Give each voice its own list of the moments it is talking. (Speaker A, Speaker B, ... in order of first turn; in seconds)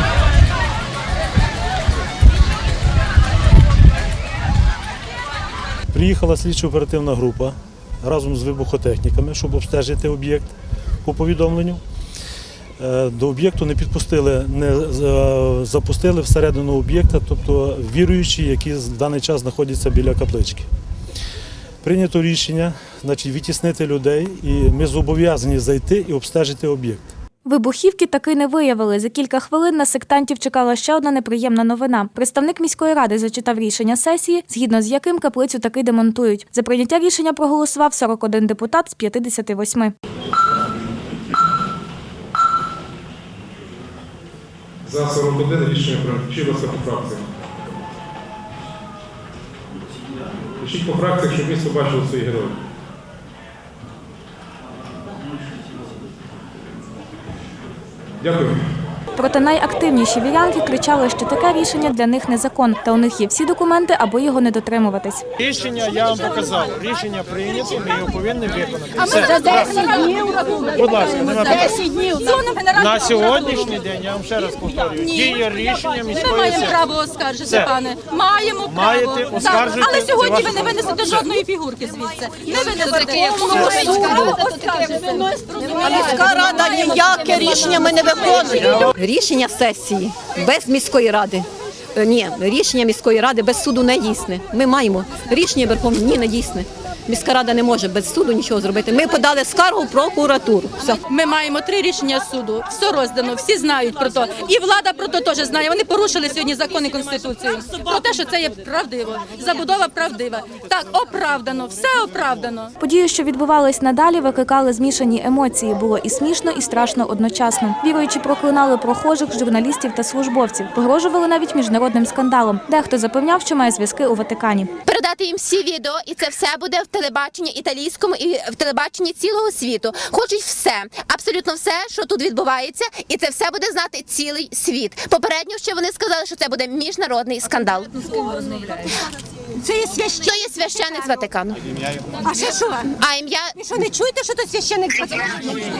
Speaker A: 5.9-10.5, 11.0-11.8, 12.8-20.7, 21.8-27.1
Speaker B: 27.4-39.9, 59.2-65.2, 112.8-124.7
Speaker C: 44.9-47.2, 50.6-52.6, 58.2-58.8
Speaker D: 65.4-69.9, 70.7-71.8, 72.8-76.8, 77.5-77.7, 78.7-81.3, 83.5-83.9
Speaker E: 69.0-73.8, 74.9-75.5, 76.1-87.7, 100.9-112.7
Speaker F: 83.9-84.3, 85.6-101.0
Speaker G: 124.9-138.2, 140.1-141.6, 142.9-143.6
Speaker H: 139.6-140.3, 142.2-142.9, 143.6-145.4